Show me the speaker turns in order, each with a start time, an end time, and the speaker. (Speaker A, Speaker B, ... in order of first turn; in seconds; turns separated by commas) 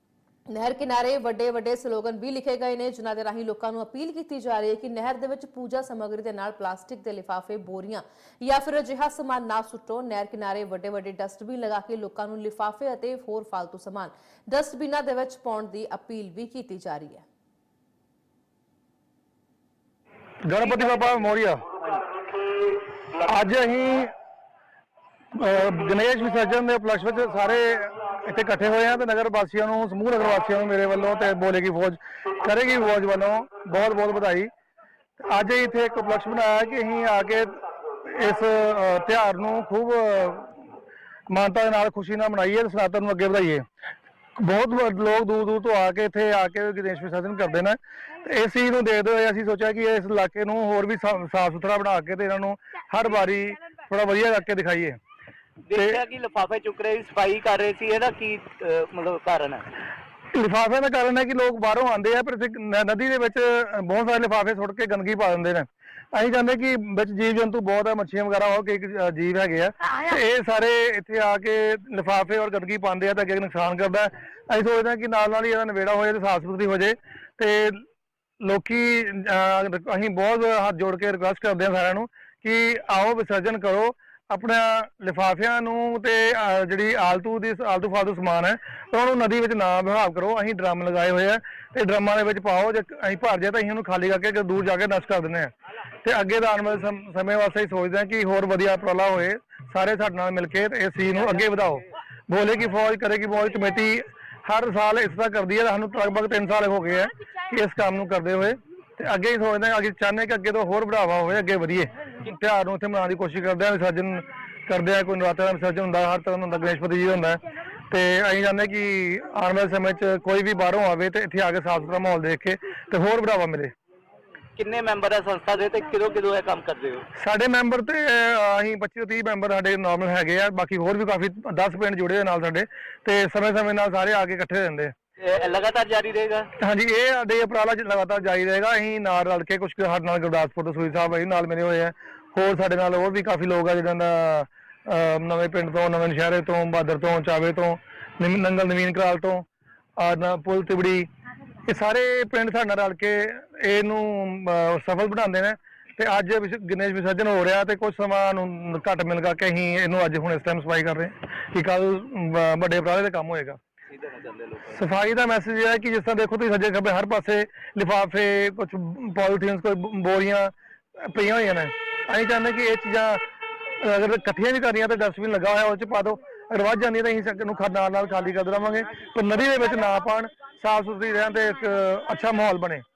Speaker A: 0.5-17.2, Speaker B: 20.4-21.8, Speaker B: 23.1-24.1, Speaker B: 25.3-34.5, Speaker B: 35.2-40.6, Speaker B: 41.3-43.6, Speaker B: 44.4-55.0, Speaker C: 55.7-59.7, Speaker B: 55.7-56.0, Speaker B: 60.3-77.8, Speaker B: 78.4-95.5, Speaker B: 96.0-123.7, Speaker C: 124.6-127.1, Speaker B: 127.2-134.9, Speaker C: 135.2-136.5, Speaker B: 136.6-149.4, Speaker B: 150.0-151.1, Speaker B: 151.7-163.6, Speaker C: 163.9-164.8, Speaker B: 164.7-182.8